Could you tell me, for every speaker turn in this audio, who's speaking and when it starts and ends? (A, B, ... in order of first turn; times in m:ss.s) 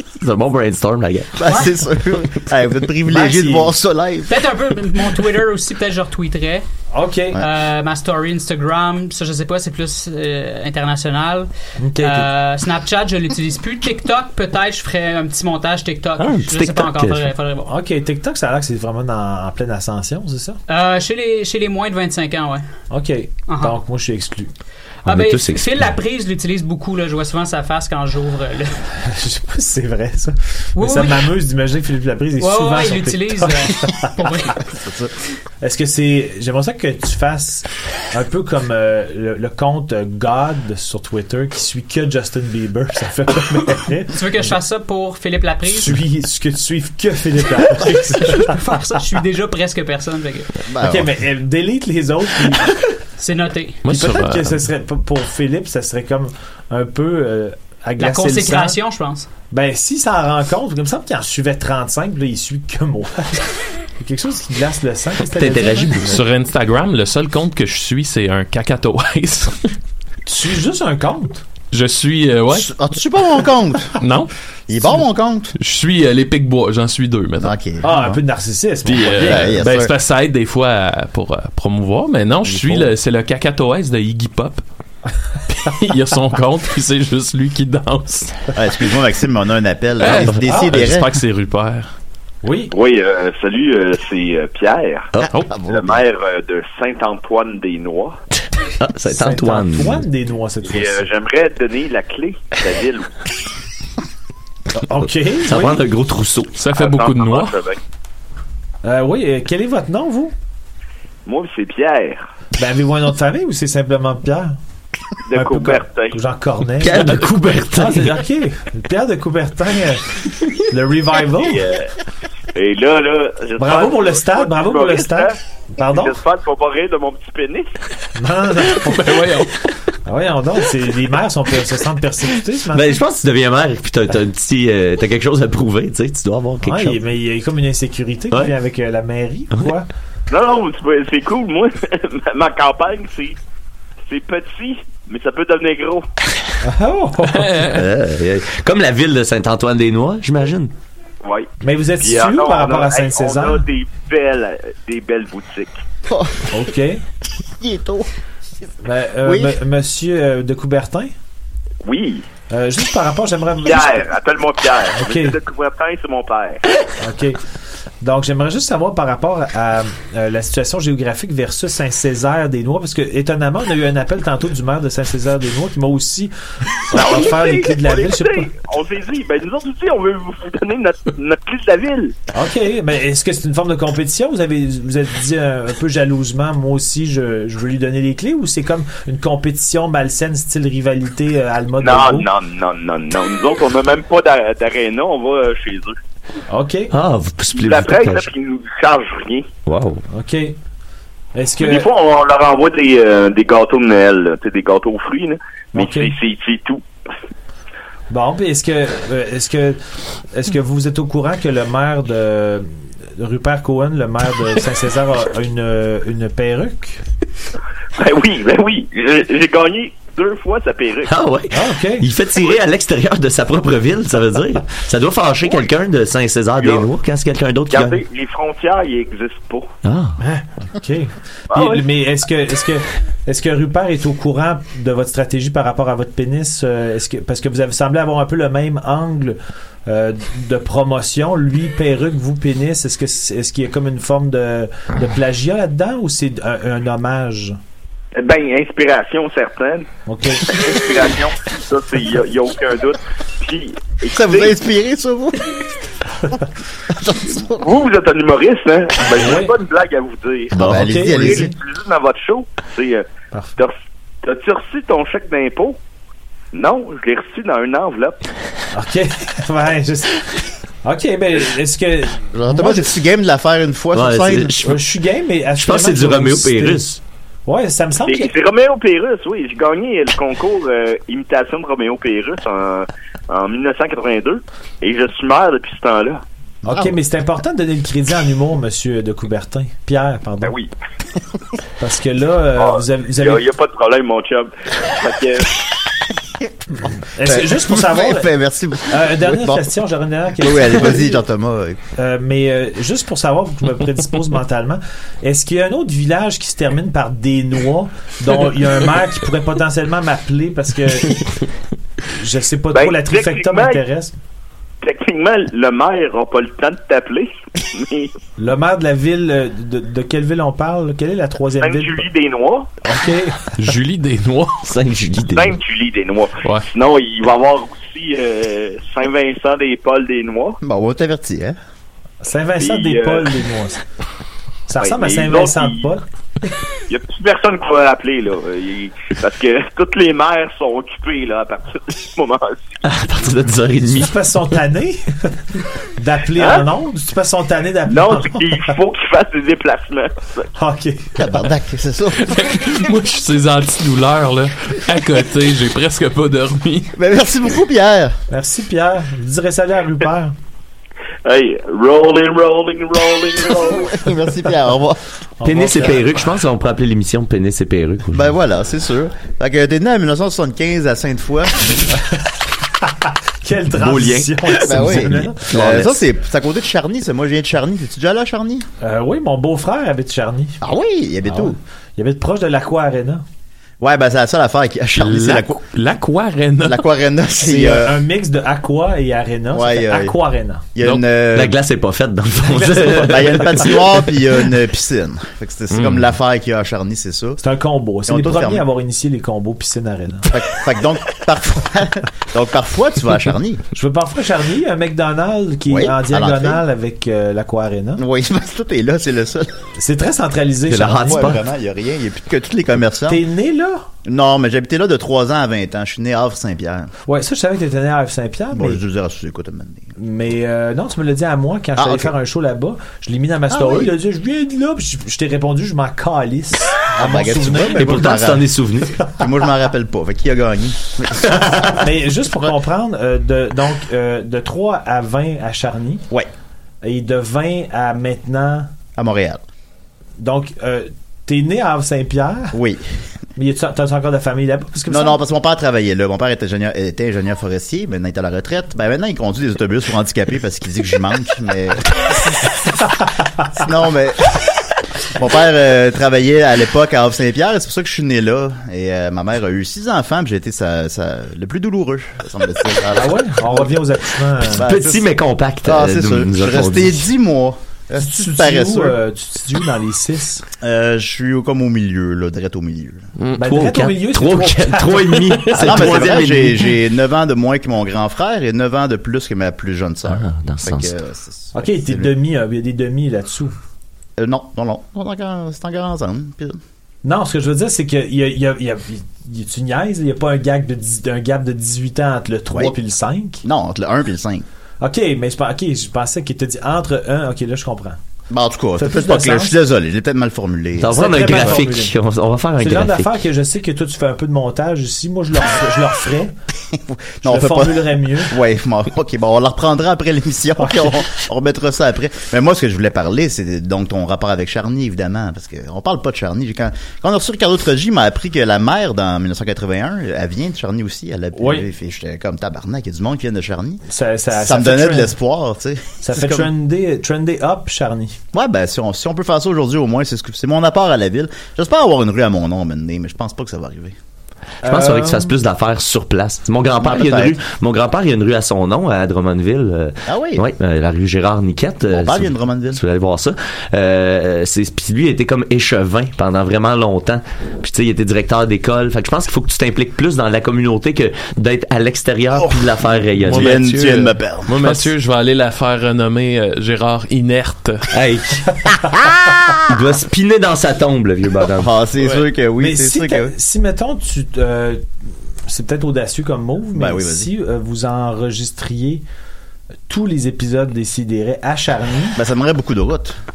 0:00.2-0:01.4 A
0:01.4-0:04.5 B
0:01.4-0:01.7 C
0:03.1-0:03.7 D
0:04.3-0:06.6 C
0:06.9-0:07.4 D
0:07.4-0:17.7 C
0:11.8-0:12.3 D
0:16.2-0:17.3 A
0:17.6-0:20.6 D
0:20.7-0:22.7 C
0:22.9-0:24.5 D
0:23.5-0:23.8 C
0:25.0-0:28.8 C
0:25.1-0:25.9 A
0:29.0-0:34.6 D
0:30.8-0:31.3 C
0:32.4-0:34.7 C
0:34.8-0:35.1 B
0:35.6-0:44.2 D
0:44.1-0:46.0 C
0:45.7-0:48.6 D
0:47.8-0:50.5 C
0:50.7-0:51.1 B
0:50.8-0:52.8 D
0:53.2-0:53.8 C
0:53.8-0:54.6 E
0:53.9-0:58.8 D
0:58.0-0:59.3 C
0:59.5-1:06.2 D
1:05.3-1:06.2 A
1:06.0-1:09.7 E
1:10.2-1:11.4 D
1:11.7-1:12.8 E
1:12.5-1:14.0 B
1:14.0-1:14.3 E
1:14.7-1:15.6 B
1:15.6-1:17.6 E
1:17.4-1:18.1 B
1:17.8-1:19.6 D
1:18.8-1:24.6 E
1:19.0-1:19.9 B
1:22.4-1:22.9 B
1:25.5-1:28.5 E
1:28.6-1:31.2 B
1:30.0-1:31.9 E
1:32.4-1:32.7 D
1:32.7-1:35.1 F
1:35.2-1:36.0 B
1:35.6-1:38.2 F
1:38.8-1:40.0 A
1:39.0-1:41.1 D
1:40.6-1:43.1 F
1:44.7-1:45.8 D
1:45.4-1:46.6 A
1:46.6-1:47.6 E
1:46.7-1:47.8 F
1:48.8-1:50.3 D
1:51.2-1:52.3 F
1:52.6-1:54.6 D
1:55.3-1:56.2 F
1:55.3-2:01.6 D
1:56.8-1:58.2 A
2:01.4-2:01.9 F
2:02.5-2:07.7 F
2:03.6-2:06.2 D
2:08.2-2:09.2 D
2:08.7-2:09.7 E
2:10.1-2:13.0 D
2:12.7-2:17.0 A
2:16.6-2:19.9 D
2:20.3-2:23.4 F
2:24.1-2:26.1 F
2:26.6-2:27.6 D
2:27.3-2:27.8 E
2:27.6-2:30.7 A
2:31.2-2:35.8 F
2:31.6-2:33.6 D
2:36.1-2:36.6 B
2:36.5-2:37.0 D
2:37.6-2:38.1 B
2:38.8-2:41.1 D
2:39.2-2:39.6 B
2:41.8-2:42.2 F
2:42.5-2:44.0 D
2:43.6-2:46.6 F
2:45.0-2:45.4 D
2:47.0-2:47.4 D
2:48.0-2:56.3 D
2:56.9-2:58.5 D
2:56.9-3:02.1 F
3:02.3-3:12.3 D
3:11.8-3:16.0 F
3:16.5-3:16.9 D
3:16.9-3:18.3 A
3:17.5-3:19.5 F
3:19.6-3:20.0 A
3:20.1-3:20.6 D
3:21.4-3:21.9 D
3:21.6-3:26.8 F
3:25.7-3:26.1 D
3:28.1-3:37.0 D
3:38.0-3:41.1 F
3:41.1-3:48.0 A
3:41.5-3:42.1 D
3:46.6-3:46.8 F
3:47.7-3:49.7 F
3:49.8-3:50.2 A
3:50.2-4:07.6 D
3:51.5-3:51.8 F
4:08.2-4:09.9 F
4:10.1-4:10.6 D
4:10.5-4:14.6 F
4:14.1-4:15.7 B
4:16.9-4:17.6 B
4:17.4-4:23.1 F
4:19.2-4:19.5 D
4:20.5-4:21.5 B
4:20.6-4:20.8 A
4:20.6-4:21.5 D
4:23.3-4:23.6 D
4:23.6-4:25.8 F
4:26.5-4:28.2 F
4:28.7-4:33.0 D
4:32.3-4:34.6 B
4:33.9-4:34.8 A
4:34.6-4:38.3 D
4:35.6-4:37.0 A
4:38.0-4:46.2 F
4:46.6-4:47.0 B
4:46.6-4:50.5 D
4:50.4-4:50.7 F
4:51.8-4:53.4 D
4:52.6-4:55.6 F
4:57.1-4:58.3 D
4:57.2-4:59.7 B
4:58.9-5:01.2 D
5:00.4-5:01.8 B
5:02.0-5:11.4 D
5:12.1-5:14.1 D
5:12.7-5:13.8 F
5:14.8-5:18.1 F
5:18.4-5:22.1 D
5:21.6-5:22.7 F
5:22.8-5:23.7 D
5:23.6-5:24.6 E
5:24.6-5:25.6 A
5:25.3-5:30.6 F
5:30.6-5:31.6 B
5:32.2-5:33.8 D
5:32.6-5:33.3 F
5:34.7-5:36.0 D
5:34.8-5:35.9 F
5:36.9-5:42.8 F
5:42.8-5:44.2 A
5:43.8-5:48.7 D
5:46.4-5:46.6 F
5:47.9-5:50.4 F
5:50.6-5:51.4 D
5:51.2-5:52.5 B
5:52.2-5:56.9 E
5:57.0-5:58.2 B
5:58.3-6:00.4 D
6:01.2-6:04.1 F
6:03.8-6:05.0 B
6:05.4-6:06.3 D
6:05.4-6:08.3 A
6:08.1-6:11.9 B
6:12.8-6:15.8 D
6:13.8-6:15.9 A
6:14.5-6:18.7 B
6:18.8-6:20.6 D
6:20.6-6:21.6 B
6:21.3-6:23.2 D
6:23.8-6:25.6 B
6:25.0-6:26.9 E
6:26.6-6:28.0 B
6:27.4-6:30.6 D
6:29.5-6:30.2 B
6:30.7-6:31.6 B
6:31.3-6:33.8 A
6:32.4-6:33.8 D
6:32.8-6:37.4 B
6:35.7-6:36.1 E
6:37.4-6:40.3 D
6:38.1-6:38.6 B
6:40.3-6:43.6 B
6:43.7-6:48.0 D
6:45.7-6:46.6 B
6:48.0-6:49.6 B
6:49.8-6:51.4 D
6:50.7-6:51.4 A
6:51.0-6:53.2 B
6:53.1-6:53.9 D
6:54.0-6:56.9 B
6:57.1-6:58.8 D
6:58.5-6:59.9 B
7:00.0-7:08.4 D
7:01.8-7:02.1 B
7:03.5-7:03.9 B
7:06.9-7:08.5 B
7:07.7-7:09.0 A
7:09.1-7:11.8 B
7:11.6-7:16.0 D
7:16.8-7:18.7 D
7:19.0-7:19.4 B
7:20.2-7:22.6 D
7:22.5-7:23.0 B
7:23.4-7:25.2 D
7:24.9-7:32.5 B
7:33.5-7:34.4 B
7:35.1-7:49.0 B
7:42.9-7:44.7 D
7:44.6-7:47.1 A
7:48.0-7:50.4 D
7:50.6-7:53.0 B
7:53.4-7:56.4 D
7:53.4-7:56.7 A
7:55.6-8:02.1 B
8:00.1-8:00.9 A
8:01.5-8:03.6 D
8:04.2-8:06.6 B
8:07.0-8:13.4 D
8:13.4-8:14.4 B
8:14.8-8:18.0 D
8:18.3-8:21.7 B
8:18.8-8:19.6 D
8:20.8-8:23.1 A
8:20.9-8:22.0 D
8:22.6-8:26.3 D
8:26.7-8:46.5 B
8:27.2-8:28.4 D
8:30.6-8:30.9 D
8:41.3-8:41.7 D
8:43.9-8:45.1 D
8:46.0-8:48.2 D
8:48.3-8:54.0 B
8:54.6-8:55.3 D
8:54.6-9:13.6 A
8:56.8-8:57.4 B
9:00.0-9:00.4 B
9:01.9-9:02.8 B
9:13.2-9:17.9 E
9:13.3-9:14.9 B
9:17.9-9:18.6 A
9:19.6-9:21.7 A
9:21.5-9:23.3 B
9:22.6-9:24.8 D
9:25.5-9:29.0 D
9:26.7-9:27.3 B
9:29.9-9:32.2 D
9:32.2-9:33.2 B